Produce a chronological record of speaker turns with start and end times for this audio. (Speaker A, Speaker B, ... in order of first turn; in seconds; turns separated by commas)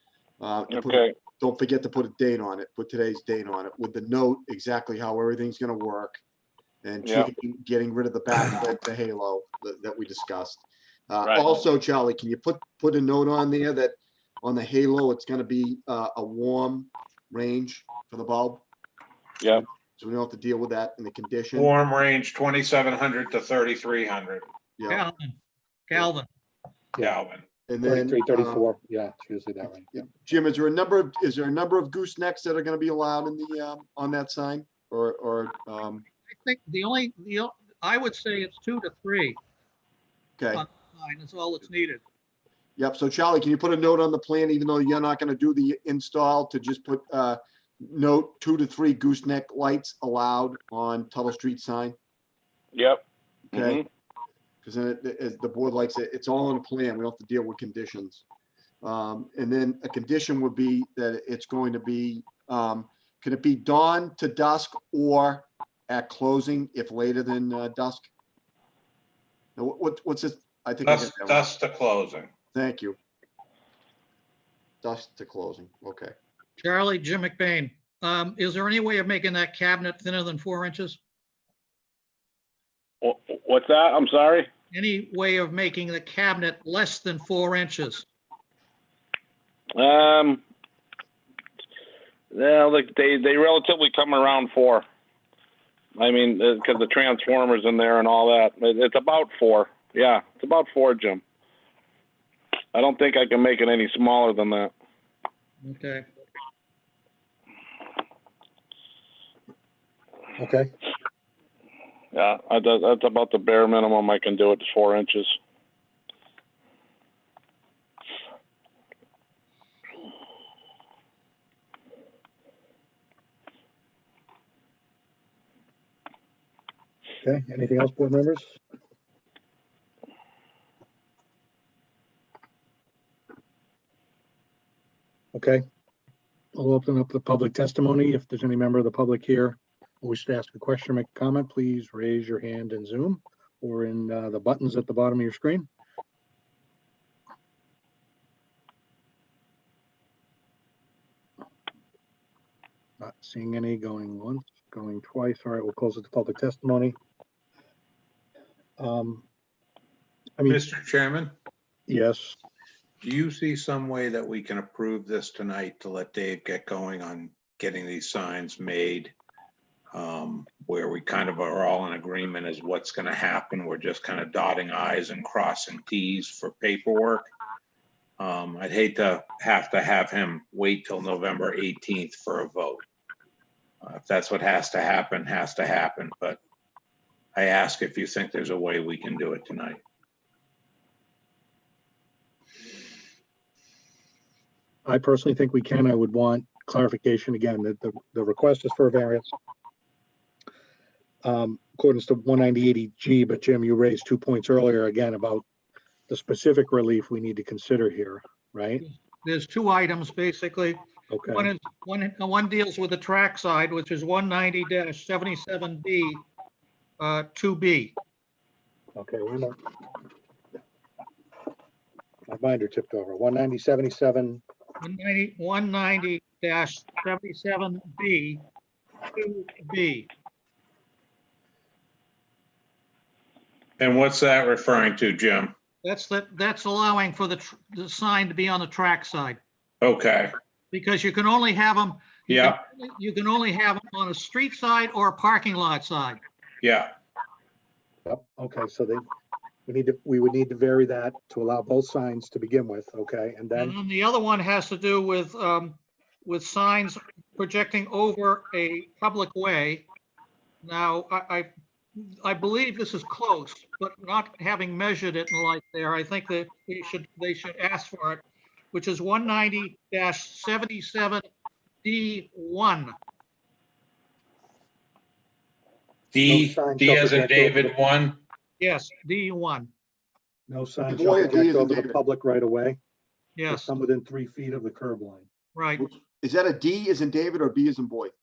Speaker A: 0.4-6.2, Speaker B: 0.7-1.1, Speaker A: 6.8-18.6, Speaker B: 7.0-7.3, Speaker A: 19.5-21.7, Speaker C: 21.5-24.4, Speaker A: 24.8-25.0, Speaker D: 24.9-25.4, Speaker D: 25.9-26.3, Speaker C: 27.0-27.4, Speaker A: 27.7-28.7, Speaker E: 27.8-29.9, Speaker A: 29.9-36.0, Speaker D: 36.3-39.4, Speaker A: 40.4-40.6, Speaker D: 40.5-42.0, Speaker A: 42.8-51.9, Speaker B: 52.7-53.8, Speaker A: 53.5-53.8, Speaker A: 54.6-58.2, Speaker A: 58.8-68.1, Speaker A: 69.5-71.5, Speaker C: 70.9-72.3, Speaker A: 72.5-73.0, Speaker A: 74.8-76.1, Speaker D: 76.6-81.0, Speaker B: 83.0-84.5, Speaker D: 84.7-88.0, Speaker B: 89.7-90.4, Speaker B: 92.3-94.8, Speaker B: 96.0-101.2, Speaker B: 102.7-104.7, Speaker D: 105.6-106.0, Speaker E: 110.4-110.7, Speaker B: 112.1-115.4, Speaker E: 127.2-128.6, Speaker E: 135.3-135.6, Speaker E: 136.5-145.7, Speaker E: 153.0-156.9, Speaker E: 158.8-159.2, Speaker C: 160.4-161.3, Speaker E: 161.9-162.3, Speaker C: 163.0-169.1, Speaker C: 169.9-177.3, Speaker C: 178.2-182.8, Speaker C: 183.8-186.4, Speaker C: 187.3-189.8, Speaker E: 194.8-199.3, Speaker E: 201.2-205.4, Speaker E: 206.1-208.8, Speaker D: 208.8-216.2, Speaker E: 211.1-211.5, Speaker D: 217.0-217.9, Speaker E: 218.9-219.6, Speaker E: 222.3-224.4, Speaker D: 224.8-228.4, Speaker D: 229.1-230.1, Speaker C: 233.8-235.5, Speaker D: 235.8-239.4, Speaker C: 239.8-240.3, Speaker D: 240.7-246.2, Speaker C: 242.3-242.6, Speaker C: 246.6-246.9, Speaker E: 248.1-249.0, Speaker E: 249.7-253.8, Speaker D: 253.5-259.9, Speaker D: 260.6-271.2, Speaker D: 271.8-272.9, Speaker C: 276.1-278.2, Speaker E: 276.2-277.7, Speaker D: 278.6-279.7, Speaker E: 280.5-282.8, Speaker A: 280.9-282.0, Speaker D: 283.4-283.7, Speaker E: 283.5-285.3, Speaker D: 285.5-285.8, Speaker A: 285.8-288.1